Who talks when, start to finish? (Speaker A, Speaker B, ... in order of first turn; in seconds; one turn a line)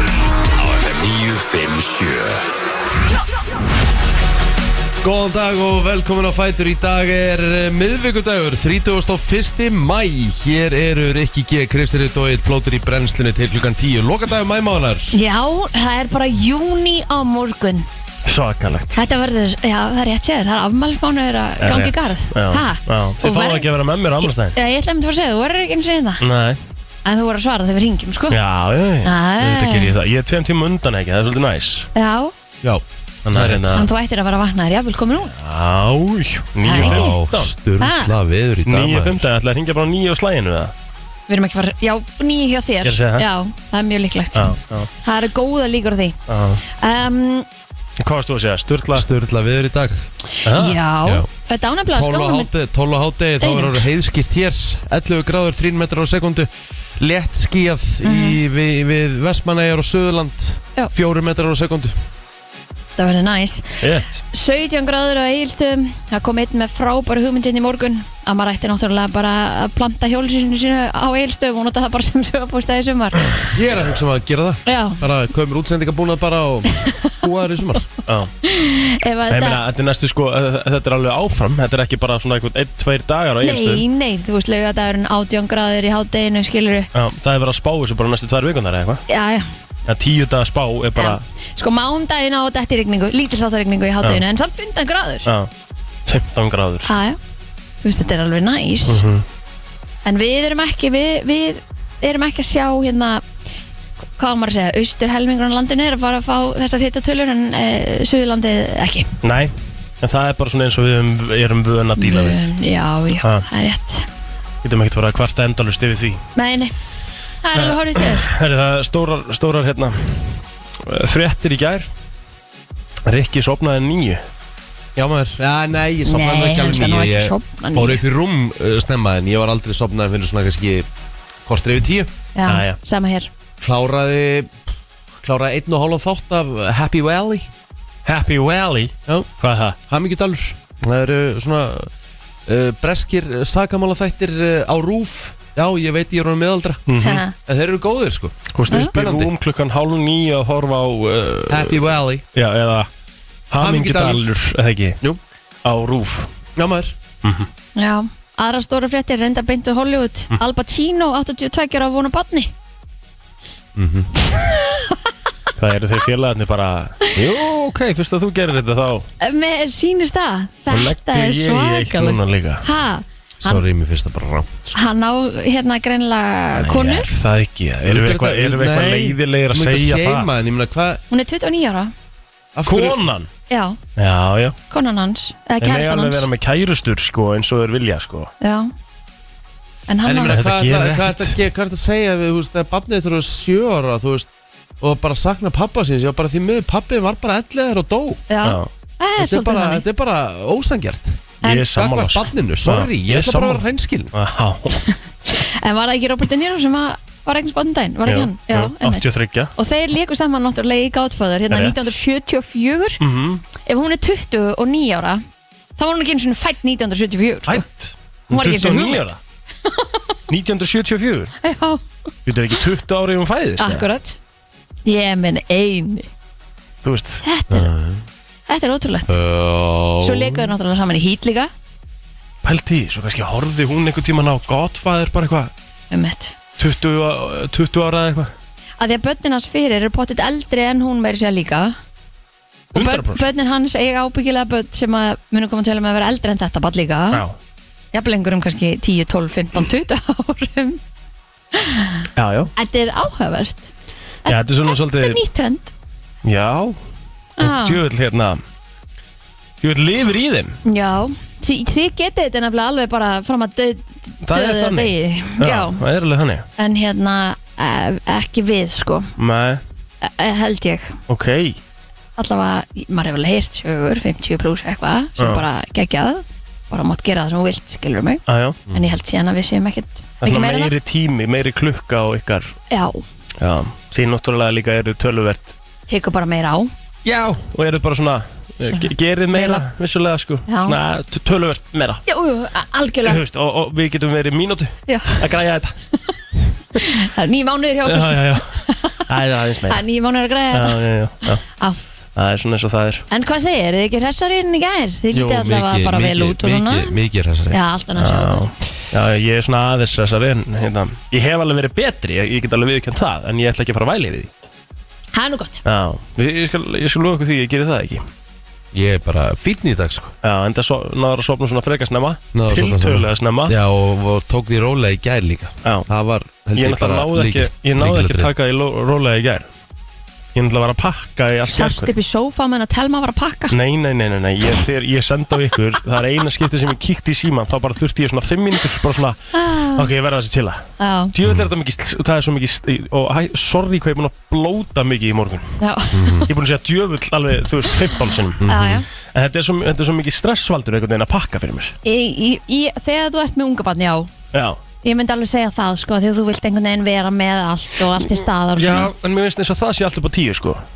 Speaker A: 0.5-2.5
Speaker A: 5.0-15.2
Speaker B: 15.1-17.9
Speaker C: 18.2-19.0
Speaker B: 18.9-23.7
Speaker C: 21.6-24.6
Speaker B: 24.2-26.2
Speaker C: 26.2-26.6
Speaker B: 27.0-28.4
Speaker C: 28.3-31.9
Speaker B: 29.0-29.9
Speaker B: 31.9-32.3
Speaker A: 32.6-33.9
Speaker C: 33.2-33.9
Speaker B: 33.7-35.3
Speaker C: 35.3-37.5
Speaker B: 36.6-37.2
Speaker A: 36.7-39.3
Speaker B: 37.8-38.1
Speaker C: 38.6-40.7
Speaker B: 41.3-47.5
Speaker C: 42.8-43.2
Speaker C: 44.3-44.9
Speaker C: 46.3-46.6
Speaker C: 48.0-49.1
Speaker A: 48.9-50.1
Speaker B: 50.4-52.5
Speaker C: 50.4-50.8
Speaker A: 51.9-61.9
Speaker B: 53.4-53.8
Speaker B: 58.0-58.4
Speaker B: 63.0-73.5
Speaker C: 63.8-64.1
Speaker A: 73.5-77.9
Speaker B: 74.7-75.0
Speaker B: 76.8-77.1
Speaker C: 78.1-78.3
Speaker B: 78.4-79.6
Speaker C: 79.3-83.8
Speaker B: 83.4-86.9
Speaker C: 86.9-89.0
Speaker B: 89.1-89.5
Speaker C: 89.9-91.2
Speaker B: 91.0-95.3
Speaker C: 96.1-96.9
Speaker B: 96.8-97.2
Speaker B: 97.8-99.0
Speaker C: 98.9-99.2
Speaker B: 100.0-103.2
Speaker B: 104.2-109.1
Speaker C: 109.2-112.5
Speaker B: 112.0-114.0
Speaker C: 114.6-116.2
Speaker B: 116.3-116.7
Speaker B: 117.4-118.3
Speaker C: 117.5-121.9
Speaker C: 123.0-124.2
Speaker A: 125.0-130.9
Speaker B: 126.0-128.0
Speaker A: 131.4-132.1
Speaker B: 132.3-133.3
Speaker C: 132.4-132.8
Speaker A: 133.6-134.6
Speaker A: 135.2-137.5
Speaker C: 138.1-139.8
Speaker A: 139.9-141.9
Speaker A: 142.5-146.8
Speaker C: 146.9-147.2
Speaker B: 147.0-147.3
Speaker A: 147.4-149.3
Speaker C: 148.5-151.8
Speaker A: 151.5-152.2
Speaker C: 152.3-152.9
Speaker C: 153.5-155.0
Speaker A: 153.6-154.3
Speaker C: 155.6-156.3
Speaker A: 156.6-156.9
Speaker B: 157.8-162.5
Speaker A: 163.7-164.1
Speaker B: 164.3-165.1
Speaker C: 165.6-169.1
Speaker B: 169.2-173.6
Speaker C: 170.7-172.6
Speaker A: 173.4-174.8
Speaker B: 174.7-177.1
Speaker C: 176.6-180.3
Speaker A: 177.8-181.0
Speaker B: 181.1-181.9
Speaker A: 182.5-183.0
Speaker C: 182.6-183.3
Speaker B: 183.5-183.8
Speaker C: 184.0-184.6
Speaker B: 184.7-186.3
Speaker C: 185.6-188.3
Speaker B: 188.4-188.7
Speaker B: 189.9-190.4
Speaker A: 190.0-194.3
Speaker C: 190.3-191.3
Speaker A: 194.8-198.2
Speaker B: 198.3-199.8
Speaker C: 198.4-198.7
Speaker A: 199.2-204.1
Speaker B: 201.4-201.7
Speaker C: 201.4-204.8
Speaker B: 204.7-209.0
Speaker C: 208.1-209.5
Speaker B: 209.6-213.0
Speaker C: 211.5-211.9
Speaker C: 213.0-213.4
Speaker B: 213.6-215.2
Speaker B: 215.8-217.6
Speaker C: 217.5-219.2
Speaker B: 218.3-219.1
Speaker B: 219.6-220.2
Speaker C: 220.3-221.3
Speaker B: 221.4-221.8
Speaker C: 222.2-223.8
Speaker B: 223.6-224.2
Speaker B: 224.8-226.1
Speaker C: 226.8-227.2
Speaker B: 227.2-227.7
Speaker A: 227.5-228.0
Speaker B: 228.5-229.2
Speaker A: 229.1-230.5
Speaker B: 230.0-231.5
Speaker C: 232.4-235.5
Speaker B: 235.9-236.3
Speaker C: 236.6-238.3
Speaker B: 238.8-241.8
Speaker C: 242.7-243.3
Speaker B: 242.7-247.2
Speaker B: 247.9-250.8
Speaker B: 251.5-252.0
Speaker C: 252.2-252.5
Speaker B: 252.6-253.7
Speaker B: 254.2-255.7
Speaker C: 254.2-255.2
Speaker C: 256.2-256.8
Speaker B: 257.4-257.8
Speaker C: 257.4-258.4
Speaker C: 259.6-260.6
Speaker B: 260.6-265.8
Speaker C: 264.2-266.4
Speaker B: 266.6-269.1
Speaker C: 269.2-269.6
Speaker B: 270.0-270.9
Speaker C: 271.1-271.6
Speaker B: 272.2-280.7
Speaker C: 275.2-275.4
Speaker C: 278.3-278.6
Speaker A: 278.7-278.9
Speaker C: 280.2-282.6
Speaker B: 282.7-283.0
Speaker C: 283.4-285.6
Speaker B: 285.9-286.7
Speaker C: 287.0-292.0
Speaker B: 288.6-289.6
Speaker B: 290.5-290.8
Speaker B: 292.1-293.2
Speaker C: 293.0-295.8
Speaker B: 294.9-295.2
Speaker B: 296.8-299.1
Speaker C: 297.8-299.8
Speaker B: 299.7-301.8
Speaker C: 300.5-301.4
Speaker C: 302.1-303.1
Speaker B: 303.1-306.9
Speaker A: 305.1-307.6
Speaker B: 307.5-308.5
Speaker C: 308.0-314.3
Speaker B: 315.1-315.6
Speaker C: 315.6-318.0
Speaker A: 318.7-320.1
Speaker C: 320.2-323.6
Speaker A: 322.3-328.3
Speaker C: 326.6-329.5
Speaker C: 330.3-331.9
Speaker B: 331.5-333.6
Speaker C: 333.5-345.5
Speaker B: 339.3-339.9
Speaker B: 340.8-341.1
Speaker B: 345.6-346.2
Speaker A: 345.9-346.3
Speaker C: 346.2-348.4
Speaker A: 348.4-348.9
Speaker B: 348.5-348.9
Speaker C: 349.1-351.8
Speaker B: 351.8-354.1
Speaker C: 354.3-354.6
Speaker B: 354.8-358.9
Speaker C: 358.6-360.6